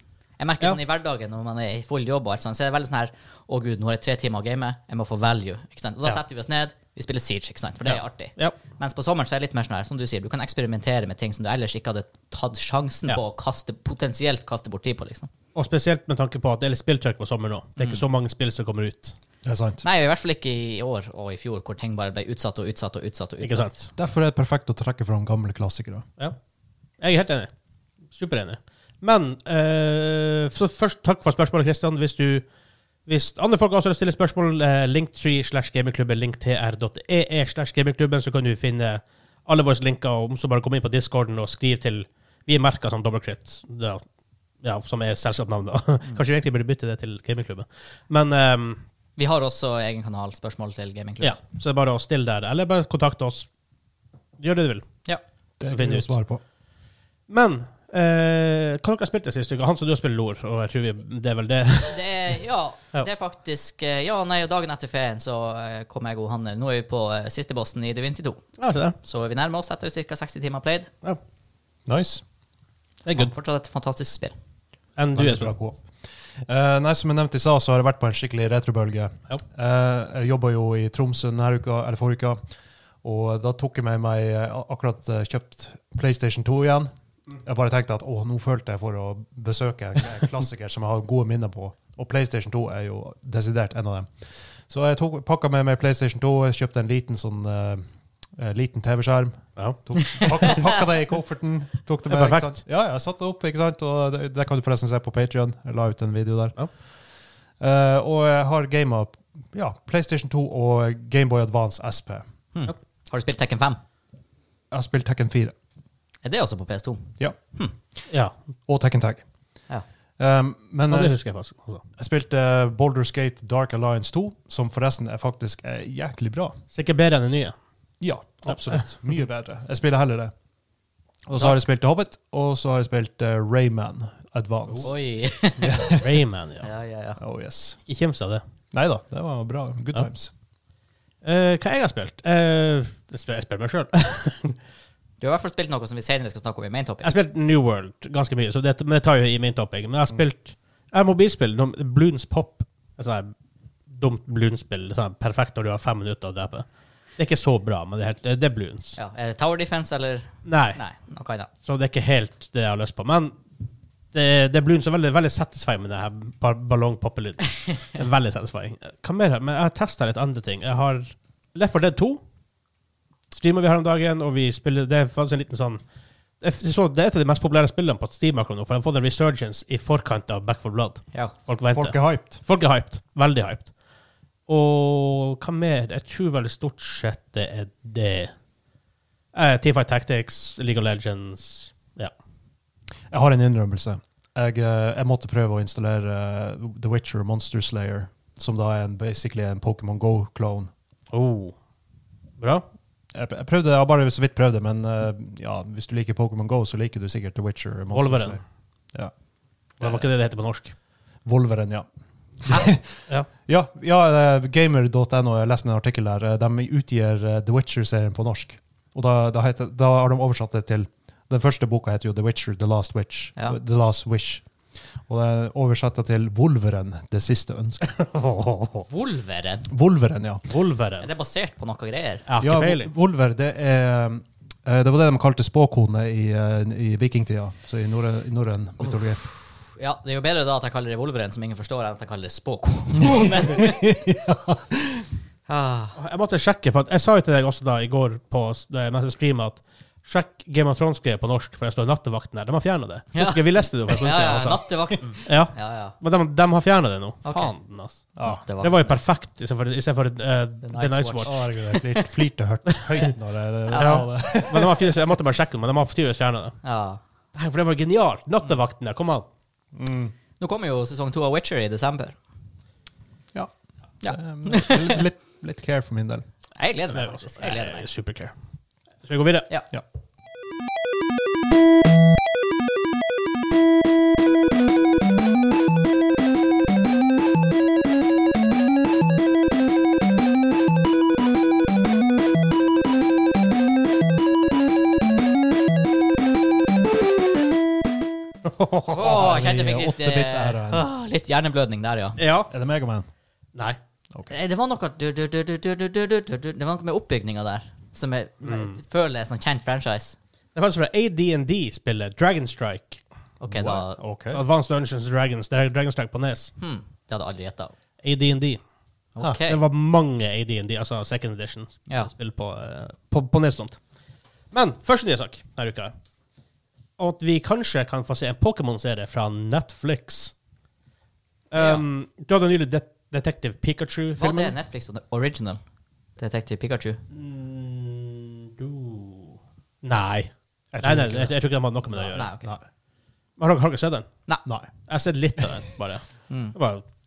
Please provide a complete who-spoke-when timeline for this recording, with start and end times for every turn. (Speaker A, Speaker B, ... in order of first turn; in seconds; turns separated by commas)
Speaker A: 0.4-15.3, Speaker B: 7.8-8.6, Speaker B: 15.5-19.2, Speaker A: 17.8-18.0, Speaker C: 19.4-19.8, Speaker A: 19.8-23.7, Speaker B: 23.4-23.9, Speaker C: 23.9-26.1, Speaker B: 27.0-27.5, Speaker B: 28.1-32.5, Speaker B: 33.1-44.0, Speaker B: 44.6-48.8, Speaker A: 49.2-51.4, Speaker B: 51.2-53.5, Speaker B: 54.4-54.9, Speaker C: 55.6-56.4, Speaker B: 55.7-56.1, Speaker B: 57.3-62.1, Speaker A: 61.9-68.4, Speaker B: 68.6-69.0, Speaker A: 69.0-70.9, Speaker C: 71.9-72.2, Speaker B: 73.0-73.3, Speaker A: 73.1-74.3, Speaker B: 75.0-75.5, Speaker C: 75.1-82.4, Speaker C: 83.0-86.9, Speaker C: 87.4-97.8, Speaker C: 98.4-106.5, Speaker B: 99.6-100.3, Speaker A: 100.1-100.5, Speaker B: 102.1-102.6, Speaker C: 107.6-112.2, Speaker A: 112.5-113.8, Speaker C: 114.7-115.5, Speaker A: 116.2-117.7, Speaker C: 118.7-119.2, Speaker C: 120.2-121.2, Speaker B: 120.9-121.8, Speaker C: 122.0-126.6, Speaker B: 126.7-127.5, Speaker C: 128.0-130.3, Speaker B: 128.5-128.8, Speaker C: 131.2-134.9, Speaker A: 134.8-136.0, Speaker C: 135.6-136.2, Speaker B: 136.0-136.7, Speaker A: 136.6-137.2, Speaker C: 137.2-137.8, Speaker B: 137.8-138.4, Speaker C: 138.7-140.3, Speaker B: 141.2-144.6, Speaker A: 145.2-147.1, Speaker B: 147.0-153.3, Speaker B: 153.9-156.7, Speaker B: 157.2-159.0, Speaker A: 158.9-161.5, Speaker B: 160.4-160.8, Speaker B: 161.6-163.4, Speaker B: 164.1-172.2, Speaker B: 173.3-175.8, Speaker B: 176.4-183.7, Speaker C: 181.7-182.4, Speaker B: 184.5-188.3, Speaker B: 189.3-192.1, Speaker C: 193.1-200.7, Speaker B: 201.1-201.5, Speaker B: 202.4-202.6, Speaker C: 203.1-208.4, Speaker B: 207.9-208.4, Speaker C: 209.8-210.1, Speaker B: 209.8-210.7, Speaker C: 211.2-211.9, Speaker C: 212.4-224.5, Speaker C: 225.0-227.9, Speaker B: 227.8-228.9, Speaker A: 228.9-229.7, Speaker C: 229.7-230.5, Speaker B: 230.5-231.1, Speaker A: 231.0-232.2, Speaker B: 232.3-232.9, Speaker C: 232.4-239.2, Speaker A: 238.8-243.8, Speaker C: 243.3-245.1, Speaker A: 245.5-245.9, Speaker B: 246.0-254.6, Speaker A: 253.1-255.9, Speaker B: 255.2-261.4, Speaker A: 257.2-259.0, Speaker C: 258.1-258.4, Speaker A: 260.6-261.7, Speaker C: 261.2-264.9, Speaker A: 263.7-264.1, Speaker B: 263.8-266.6, Speaker A: 266.6-267.0, Speaker B: 267.3-269.2, Speaker C: 269.7-270.1, Speaker A: 270.4-272.2, Speaker A: 274.0-275.0, Speaker C: 274.0-276.2, Speaker A: 276.6-277.9, Speaker B: 276.9-278.3, Speaker B: 279.0-279.5, Speaker B: 298.4-299.4, Speaker A: 298.9-302.2, Speaker C: 299.0-300.9, Speaker B: 302.2-302.5, Speaker C: 302.5-303.1, Speaker A: 304.3-310.2, Speaker B: 308.4-308.8, Speaker B: 310.5-313.0, Speaker A: 313.4-314.0, Speaker C: 313.5-314.4, Speaker B: 314.3-316.5, Speaker A: 316.6-317.7, Speaker B: 318.0-318.6, Speaker A: 319.1-319.6, Speaker B: 319.4-323.8, Speaker B: 324.5-325.9, Speaker B: 327.0-330.3, Speaker B: 331.5-334.6, Speaker A: 331.5-331.8, Speaker A: 334.2-335.6, Speaker A: 336.2-337.0, Speaker B: 337.1-342.3, Speaker C: 340.7-341.4, Speaker C: 341.9-342.6, Speaker A: 342.1-342.5, Speaker B: 343.4-344.1, Speaker C: 344.4-344.7, Speaker B: 344.9-346.8, Speaker A: 346.3-346.6